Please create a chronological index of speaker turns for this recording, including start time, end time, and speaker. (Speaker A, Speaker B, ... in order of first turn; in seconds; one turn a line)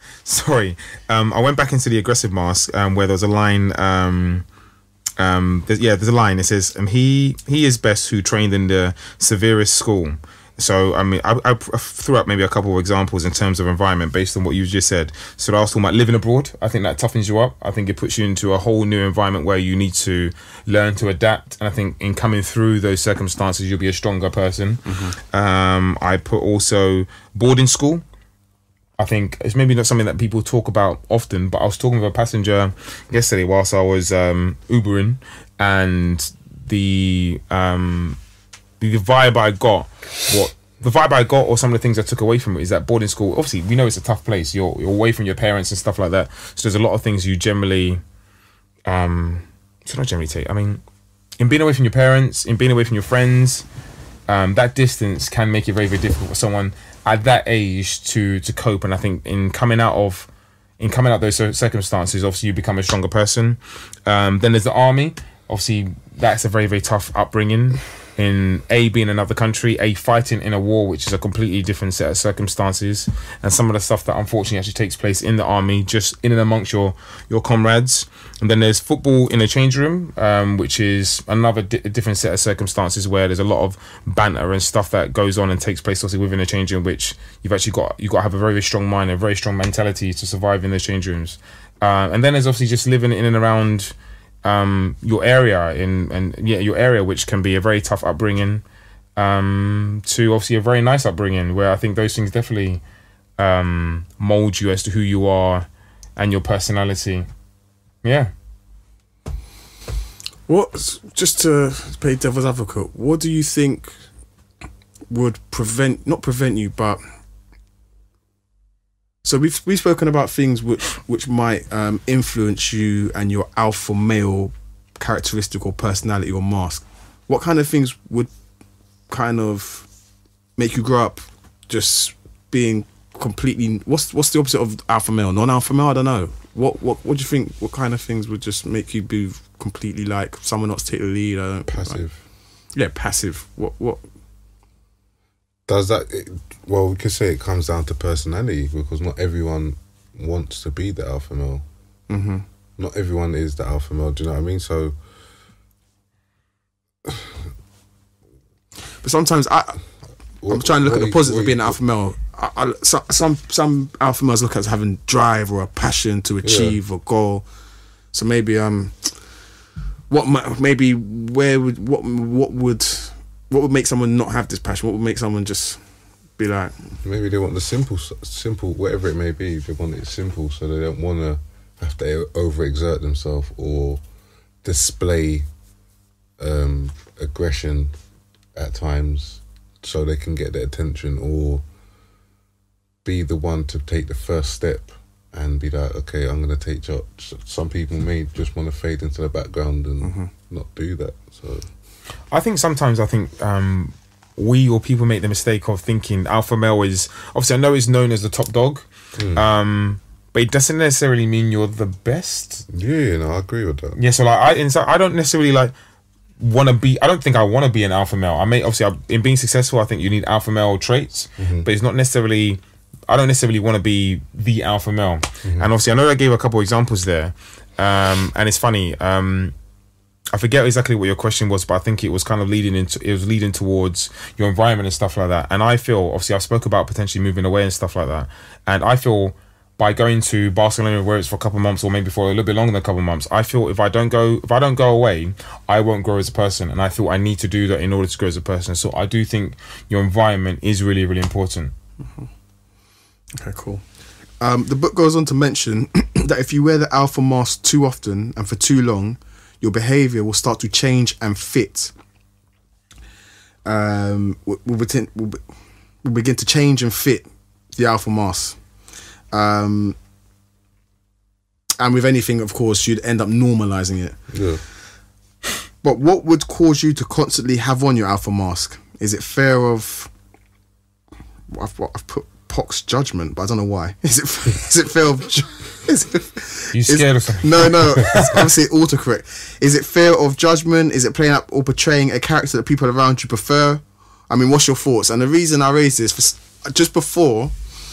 Speaker A: 0.2-4.5
Speaker A: 5.2-28.0
Speaker B: 24.9-25.1
Speaker A: 29.0-38.2
Speaker A: 38.8-48.0
Speaker A: 48.9-50.8
Speaker A: 51.4-53.7
Speaker A: 54.3-60.3
Speaker A: 60.8-98.6
Speaker A: 99.2-102.8
Speaker A: 103.4-107.3
Speaker A: 108.0-108.3
Speaker B: 110.5-114.0
Speaker B: 115.1-117.0
Speaker B: 119.2-128.3
Speaker B: 129.1-129.9
Speaker B: 130.6-142.0
Speaker C: 141.7-142.2
Speaker B: 142.8-144.0
Speaker C: 145.7-151.7
Speaker B: 152.1-152.4
Speaker C: 152.8-155.0
Speaker B: 159.0-159.8
Speaker C: 160.4-161.8
Speaker B: 160.5-167.5
Speaker C: 166.4-166.8
Speaker B: 168.1-169.2
Speaker B: 170.1-175.8
Speaker B: 176.4-176.8
Speaker C: 177.0-184.0
Speaker C: 184.6-185.5
Speaker C: 186.4-188.0
Speaker C: 188.6-191.7
Speaker C: 193.1-201.7
Speaker B: 200.0-200.3
Speaker A: 202.3-212.7
Speaker C: 209.2-209.4
Speaker C: 212.7-214.0
Speaker A: 214.0-215.7
Speaker A: 216.4-229.6
Speaker C: 221.4-221.7
Speaker A: 230.3-251.7
Speaker B: 253.4-253.8
Speaker B: 254.4-261.9
Speaker B: 263.6-265.4
Speaker B: 266.0-268.6
Speaker B: 269.3-270.0
Speaker B: 271.8-274.2
Speaker C: 274.3-274.6
Speaker B: 275.8-280.1
Speaker B: 281.5-297.5
Speaker A: 286.7-288.4